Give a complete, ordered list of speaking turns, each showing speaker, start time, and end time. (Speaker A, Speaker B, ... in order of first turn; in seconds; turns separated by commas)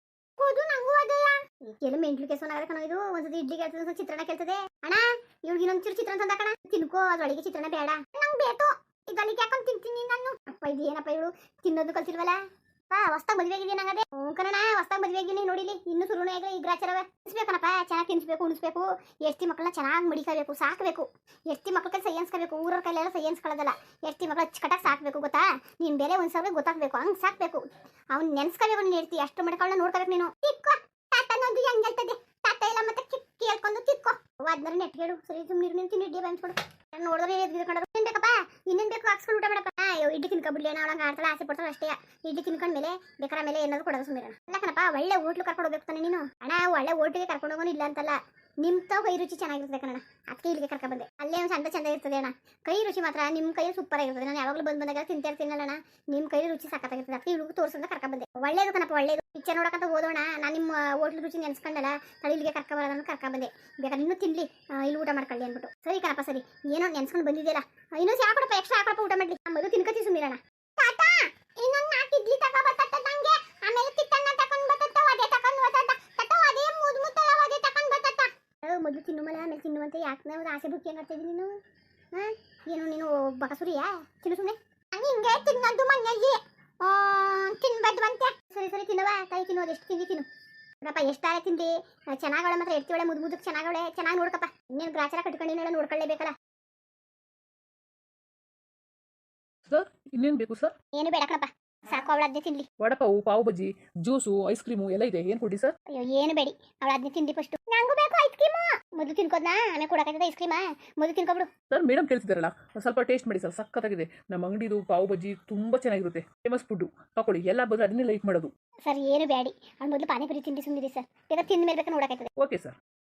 Speaker A: 0.4-81.6, Speaker A: 82.1-90.3, Speaker A: 90.8-96.3, Speaker B: 99.7-100.7, Speaker A: 100.9-102.7, Speaker B: 102.8-105.7, Speaker A: 105.9-111.5, Speaker B: 111.7-118.5, Speaker A: 118.8-122.3, Speaker B: 122.4-122.7